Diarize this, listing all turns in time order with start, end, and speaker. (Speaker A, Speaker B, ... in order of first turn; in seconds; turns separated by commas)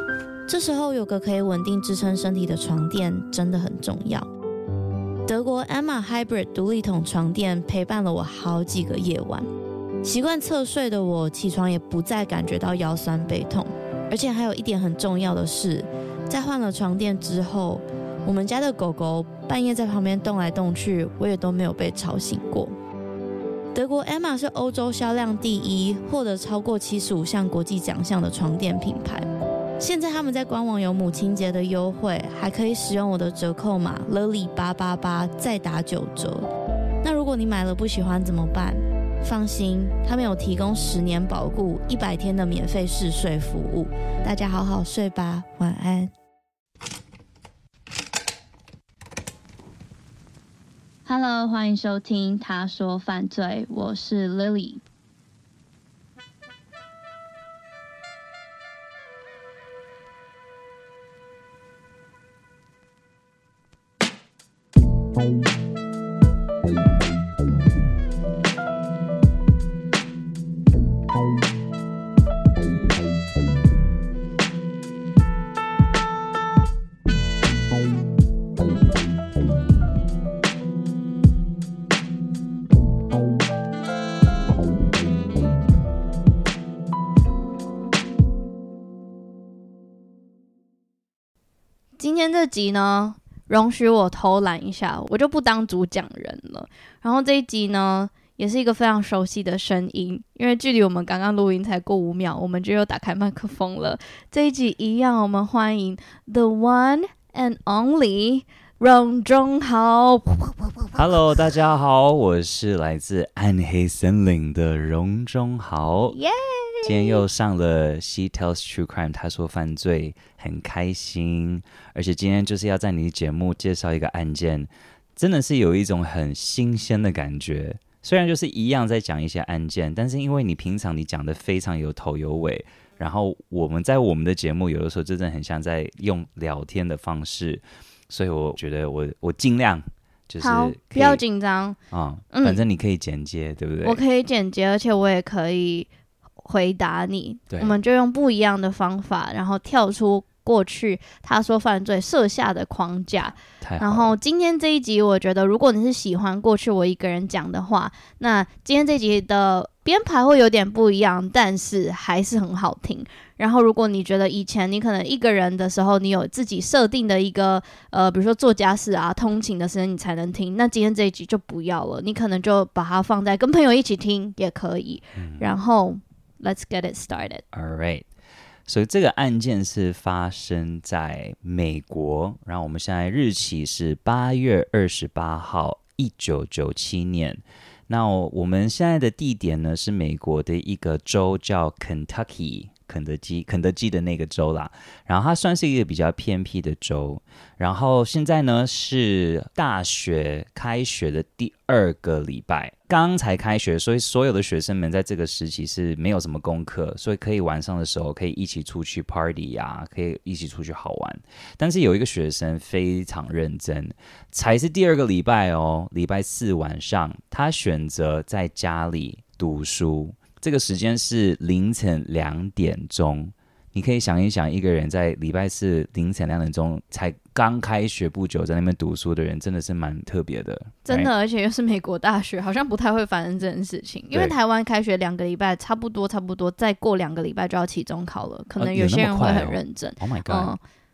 Speaker A: 0.5-4.3, Speaker A: 5.3-9.4, Speaker A: 10.0-22.7, Speaker A: 23.7-29.2, Speaker A: 29.8-36.5, Speaker A: 37.0-46.1, Speaker A: 51.0-54.8, Speaker A: 92.0-111.0, Speaker B: 110.9-116.2, Speaker A: 116.1-117.2, Speaker B: 116.8-141.2, Speaker A: 140.4-141.8, Speaker B: 141.9-144.0, Speaker A: 142.3-142.6, Speaker A: 143.8-145.9, Speaker A: 146.4-177.4, Speaker B: 147.5-147.8, Speaker B: 153.4-154.1, Speaker B: 175.1-175.5, Speaker B: 177.5-178.1, Speaker B: 178.7-231.1, Speaker A: 230.8-240.6, Speaker B: 238.6-240.5